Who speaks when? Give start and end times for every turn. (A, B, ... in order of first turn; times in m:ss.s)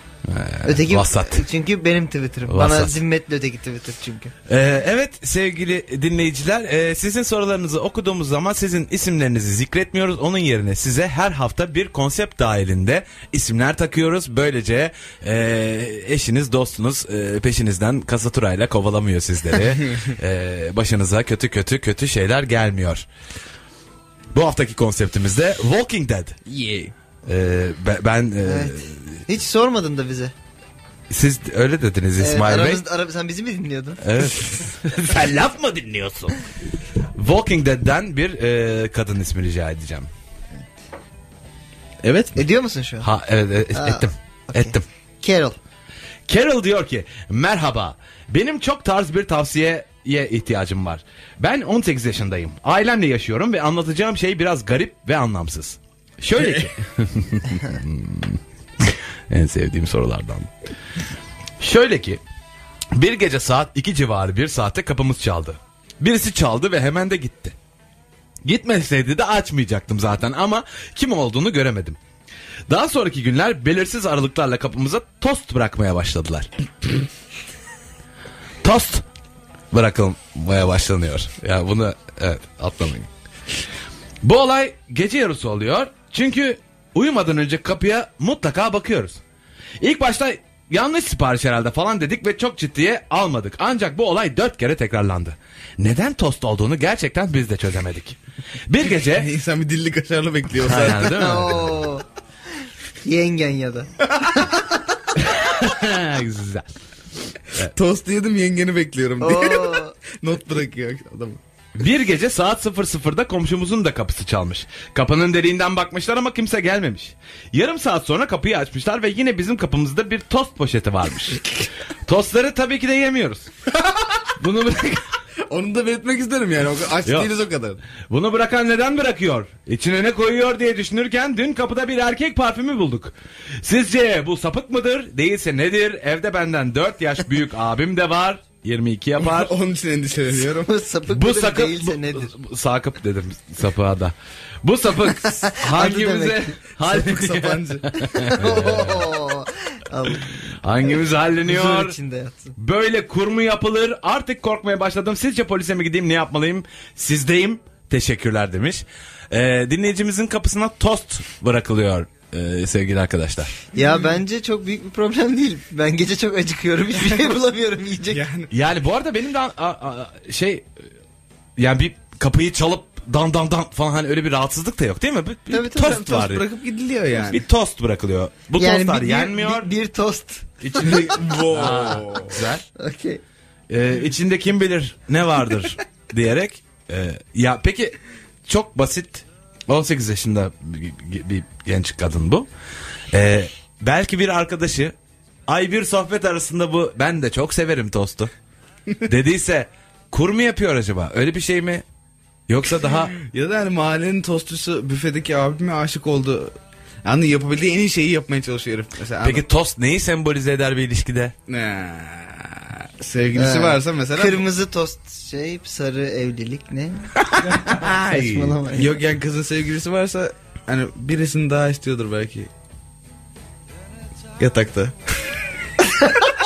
0:00.3-0:01.4 A
0:00.6-0:04.3 B
0:02.5-0:03.0 A
0:04.5-0:23.0 A
0:24.3-0:26.4 A
0:26.4-0:26.9 C
0:27.2-0:29.2 A
0:28.4-0:30.3 B
0:31.1-0:32.8 A
0:32.2-0:34.0 B
0:34.0-0:36.4 A
0:37.2-0:40.1 A
0:42.0-0:42.3 C
0:42.4-0:43.1 B
0:43.0-0:44.8 A
0:43.7-0:45.6 B
0:46.3-1:00.5 A
0:56.4-0:56.7 C
1:01.6-1:02.2 A
1:02.9-1:07.5 A
1:08.4-1:12.0 A
1:12.7-1:16.5 A
1:18.6-1:19.0 A
1:19.7-1:23.1 A
1:24.2-1:29.2 A
1:29.8-1:39.3 A
1:39.0-1:41.4 C
1:40.6-1:41.8 A
1:41.1-1:42.0 B
1:43.0-1:44.8 B
1:45.2-1:46.7 A
1:47.6-1:51.4 C
1:49.2-1:49.9 B
1:51.8-2:01.4 A
2:02.0-2:03.5 A
2:04.4-2:05.2 A
2:05.4-2:07.8 C
2:07.0-2:07.3 A
2:08.1-2:19.5 A
2:19.2-2:20.7 C
2:20.6-2:22.3 B
2:21.1-2:29.2 A
2:25.3-2:26.5 B
2:26.8-2:28.0 C
2:28.2-2:30.5 B
2:30.6-2:32.0 A
2:31.4-2:32.5 B
2:32.6-2:43.5 A
2:43.7-2:48.2 B
2:48.1-2:48.5 C
2:48.5-2:50.6 A
2:51.6-2:56.4 A
2:55.5-2:56.0 B
2:55.8-2:57.4 C
2:57.3-2:59.7 A
2:58.6-3:01.2 B
3:00.6-3:02.6 A
3:00.8-3:02.4 C
3:02.8-3:03.2 B
3:03.7-3:12.5 A
3:13.1-3:14.9 A
3:15.5-3:18.3 A
3:19.0-3:21.8 A
3:22.5-3:23.2 A
3:23.1-3:29.4 C
3:29.2-3:31.3 A
3:31.5-3:34.4 C
3:33.3-3:38.9 B
3:37.4-3:38.6 A
3:38.7-3:42.5 C
3:44.4-3:45.0 C
3:46.0-3:46.3 B